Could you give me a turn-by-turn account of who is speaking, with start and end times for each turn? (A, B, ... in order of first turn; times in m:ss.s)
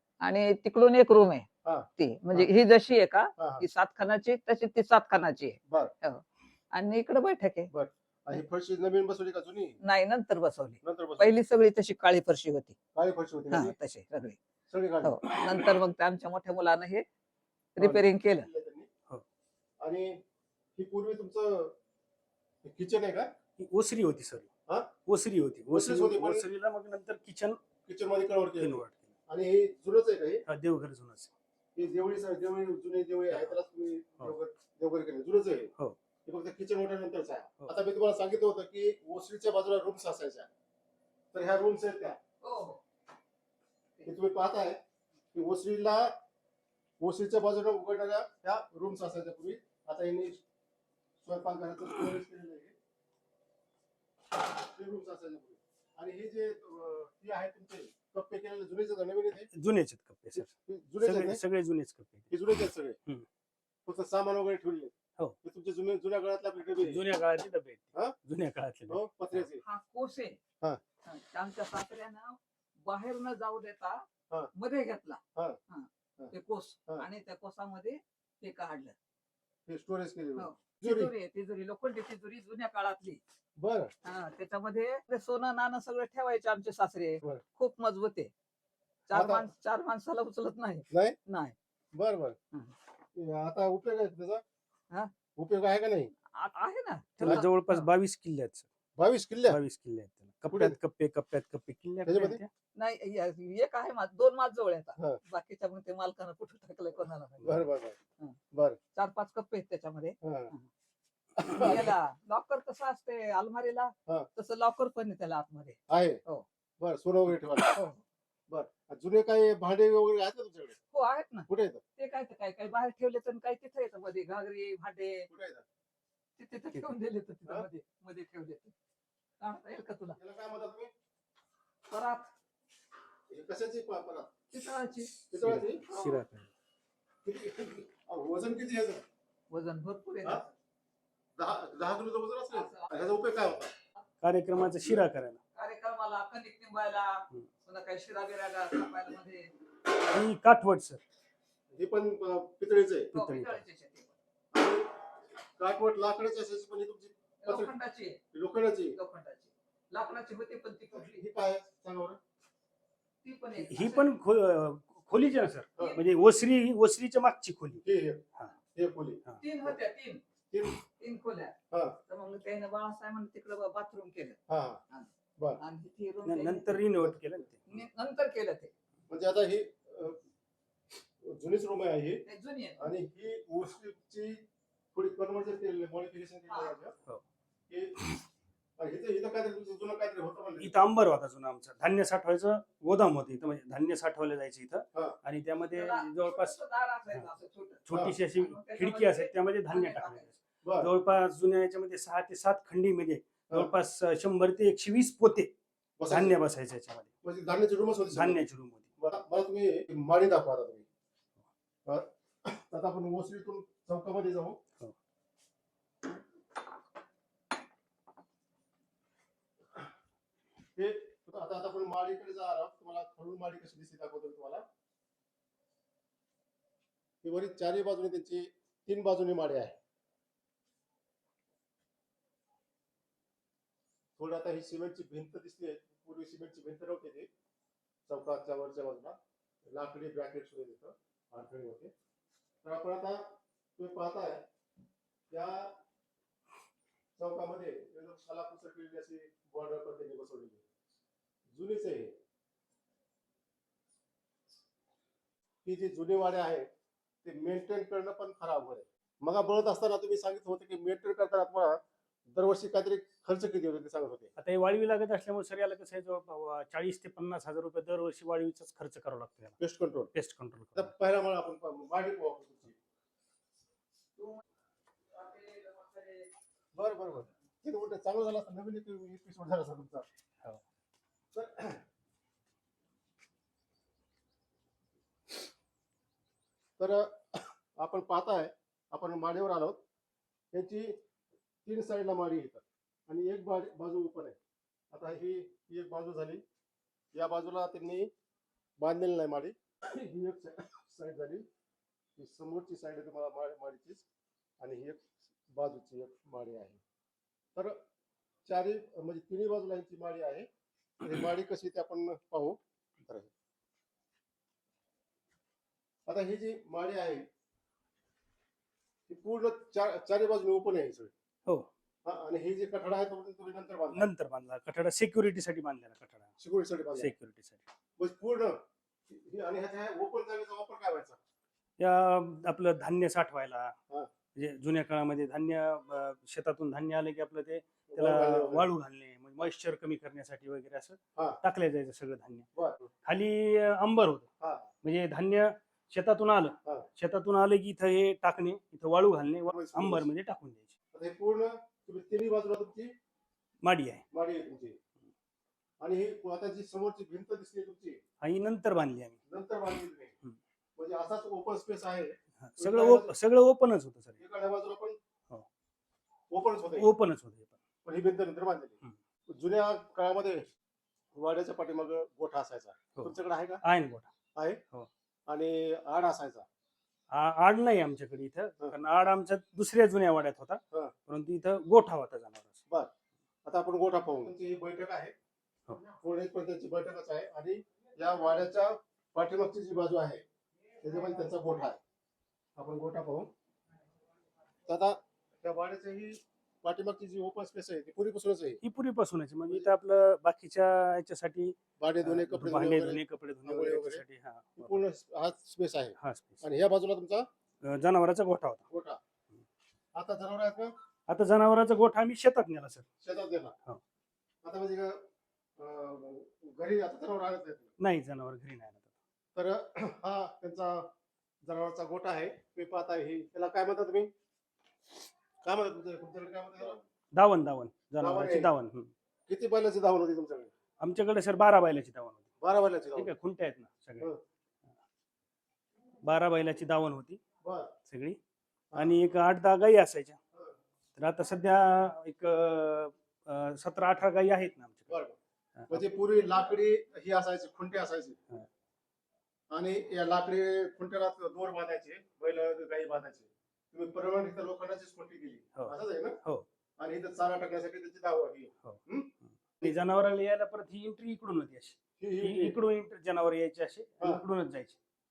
0:00.2-0:07.7 A
0:01.6-0:02.5 B
0:03.4-0:03.6 B
0:07.7-0:09.8 B
0:09.8-0:12.8 A
0:10.8-0:11.3 B
0:12.9-0:13.7 B
0:13.5-0:14.4 A
0:14.7-0:15.2 B
0:15.0-0:17.0 A
0:17.8-0:18.5 A
0:17.8-0:18.9 B
0:19.8-0:20.2 B
0:20.8-0:21.7 B
0:22.6-0:23.3 B
0:23.6-0:24.5 C
0:25.0-0:27.6 C
0:25.7-0:26.4 B
0:27.9-0:30.4 B
0:28.6-0:29.1 C
0:30.4-0:31.3 C
0:31.8-0:35.7 B
0:33.3-0:33.6 C
0:36.2-0:40.5 B
0:41.3-0:42.2 B
0:42.4-0:42.8 A
0:44.0-0:44.8 B
0:45.3-0:46.1 B
0:47.0-0:50.4 B
0:51.2-0:52.7 B
0:54.6-0:59.5 B
0:59.5-1:03.2 C
1:00.3-1:01.4 B
1:02.3-1:03.0 B
1:03.8-1:07.0 B
1:06.8-1:09.4 C
1:08.9-1:09.6 B
1:09.6-1:10.4 A
1:11.0-1:18.9 A
1:19.7-1:21.1 B
1:20.4-1:23.2 A
1:23.6-1:23.9 B
1:24.0-1:28.3 A
1:29.1-1:31.5 A
1:29.1-1:29.4 B
1:30.9-1:31.2 B
1:31.9-1:32.4 B
1:33.1-1:34.4 B
1:35.4-1:36.1 B
1:36.4-1:37.9 A
1:37.2-1:38.7 C
1:39.0-1:39.6 B
1:39.5-1:42.5 C
1:40.5-1:40.7 B
1:42.0-1:42.4 B
1:42.7-1:47.7 A
1:47.4-1:48.0 B
1:48.5-1:48.8 B
1:48.9-1:50.7 A
1:50.2-1:50.5 B
1:51.4-1:51.9 B
1:51.4-1:56.4 A
1:55.9-1:56.2 B
1:56.8-1:57.8 B
1:57.5-1:58.0 A
1:58.5-2:00.8 B
2:00.9-2:05.3 A
2:01.5-2:01.8 B
2:05.3-2:05.6 B
2:06.4-2:08.7 A
2:09.4-2:10.2 A
2:10.2-2:10.9 B
2:11.9-2:12.3 A
2:13.3-2:14.3 B
2:14.5-2:15.2 A
2:15.3-2:15.9 B
2:15.3-2:16.5 C
2:15.9-2:16.1 A
2:17.2-2:19.0 B
2:19.5-2:20.5 A
2:21.4-2:23.7 B
2:22.5-2:22.9 A
2:24.2-2:25.4 C
2:25.5-2:29.5 A
2:30.1-2:31.0 C
2:31.7-2:33.1 B
2:33.1-2:33.6 C
2:33.1-2:34.1 A
2:34.5-2:34.9 B
2:35.6-2:37.7 B
2:37.4-2:38.2 A
2:38.3-2:39.0 B
2:38.9-2:41.2 A
2:40.9-2:42.2 B
2:43.2-2:44.1 A
2:43.6-2:47.8 C
2:47.8-2:49.7 B
2:49.4-2:50.2 A
2:50.5-2:50.8 B
2:51.0-2:51.6 A
2:51.7-2:52.0 B
2:52.1-2:56.9 A
2:54.5-2:54.8 B
2:56.2-2:57.7 C
2:57.7-2:58.7 A
2:59.1-3:00.2 B
3:01.2-3:02.2 B
3:02.2-3:02.9 A
3:02.8-3:04.4 B
3:04.9-3:06.9 B
3:07.7-3:08.0 B
3:08.8-3:10.8 B
3:10.6-3:16.6 C
3:15.7-3:20.3 A
3:17.9-3:25.5 C
3:20.6-3:20.9 B
3:26.0-3:26.4 B
3:26.1-3:27.1 C
3:27.2-3:28.4 B
3:28.1-3:28.9 C
3:29.0-3:30.8 B
3:31.8-3:34.6 B
3:40.8-3:44.6 B
3:47.2-3:49.8 B
3:54.2-3:57.3 B
3:58.1-3:59.2 B
3:59.7-4:01.9 B
4:02.6-4:04.4 B
4:05.3-4:05.7 B
4:07.2-4:10.6 B
4:11.5-4:12.1 B
4:15.6-4:16.7 B
4:17.2-4:24.3 B
4:24.4-4:29.6 C
4:29.6-4:30.1 B
4:30.1-4:30.9 C
4:30.7-4:32.7 B
4:34.2-4:34.4 A
4:35.1-4:36.3 A
4:36.7-4:40.0 B
4:41.3-4:41.8 B
4:46.8-4:49.8 B
4:50.5-4:51.0 B
4:51.6-4:54.4 B
4:54.9-4:56.4 B
4:57.1-4:58.1 B
4:58.8-5:01.4 B
5:02.2-5:04.0 B
5:04.6-5:06.8 B
5:07.5-5:07.8 B
5:08.4-5:10.5 B
5:11.0-5:13.3 B
5:16.1-5:17.2 B
5:19.1-5:21.1 B
5:22.0-5:24.1 B
5:23.9-5:26.3 C
5:26.4-5:27.1 B
5:27.0-5:27.6 C
5:28.0-5:31.2 B
5:31.8-5:33.7 C
5:34.3-5:42.5 C
5:37.9-5:38.7 B
5:42.5-5:42.9 B
5:43.0-5:44.3 C
5:44.4-5:44.7 B
5:44.8-5:50.8 C
5:49.5-5:50.1 B
5:50.9-5:52.9 B
5:53.6-5:54.0 C
5:54.1-5:54.7 B
5:55.8-5:58.0 B
5:58.2-5:59.2 C
5:59.3-6:00.1 B
6:00.8-6:03.1 B
6:02.4-6:04.2 C
6:04.2-6:05.0 B
6:06.3-6:06.9 B
6:06.7-6:07.5 C
6:07.8-6:08.8 B
6:09.3-6:10.4 B
6:11.1-6:13.6 B
6:12.9-6:14.1 C
6:15.3-6:16.4 B
6:17.1-6:22.6 C
6:23.4-6:25.1 B
6:25.9-6:30.2 B
6:30.8-6:31.8 B
6:32.6-6:33.3 B
6:34.7-6:38.6 B
6:38.6-6:44.8 C
6:41.8-6:44.0 B
6:44.6-6:47.3 B
6:46.0-6:46.4 C
6:47.6-6:48.6 C
6:48.7-6:49.0 B
6:49.9-6:50.7 B
6:51.1-6:52.8 C
6:53.0-6:53.5 B
6:54.4-6:55.0 B
6:55.6-6:57.7 B
6:57.8-6:58.9 C
6:59.3-7:00.9 B
7:01.4-7:04.1 B
7:05.4-7:06.8 B
7:07.1-7:08.9 C
7:08.0-7:08.5 B
7:09.3-7:10.5 B
7:10.8-7:12.2 C
7:12.4-7:13.1 B
7:13.0-7:14.1 C
7:16.0-7:17.2 C
7:17.4-7:17.7 B
7:17.9-7:18.2 C
7:18.7-7:20.2 C
7:21.0-7:24.9 C
7:24.9-7:25.2 B
7:25.6-7:25.8 C
7:25.7-7:28.2 B
7:29.5-7:36.2 B
7:35.6-7:36.4 C
7:36.8-7:39.1 B
7:39.5-7:44.8 C
7:42.0-7:42.6 B